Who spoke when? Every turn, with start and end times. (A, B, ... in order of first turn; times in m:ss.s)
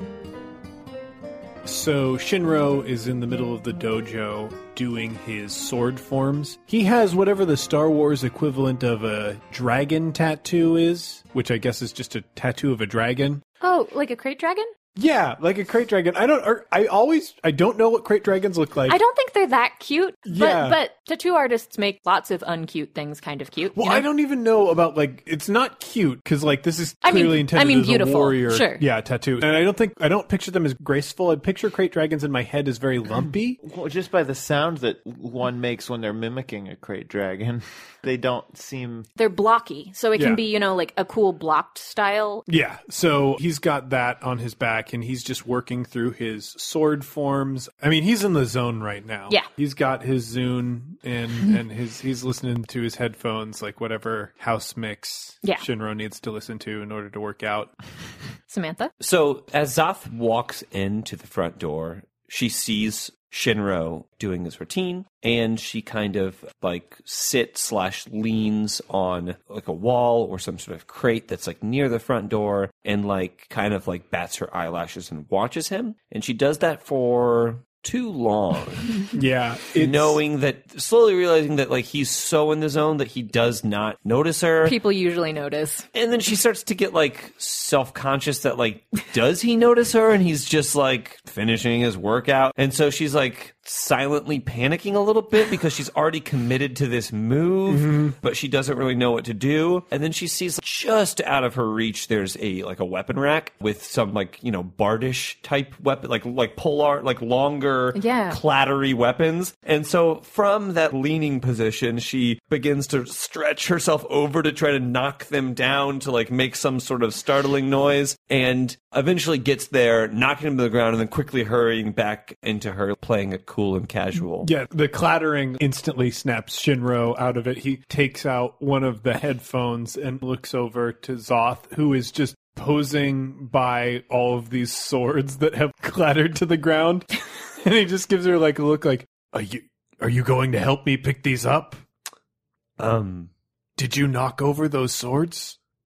0:01.6-0:13.4 A
0:13.6-0:14.7 B
0:15.0-0:19.0 A
0:18.9-0:24.1 B
0:20.3-0:20.8 A
0:23.7-0:33.6 A
0:27.0-0:28.8 B
0:33.6-0:39.1 C
0:39.2-0:42.4 B
0:40.2-0:40.4 A
0:42.5-0:57.7 A
0:58.5-0:58.9 B
0:59.0-1:19.0 D
1:19.1-1:20.2 A
1:19.8-1:24.8 D
1:24.6-1:25.9 B
1:25.9-2:04.5 D
1:37.7-1:38.2 A
1:48.0-1:48.4 B
2:04.4-2:17.1 A
2:17.6-2:21.8 A
2:22.8-2:23.3 D
2:23.8-2:25.6 A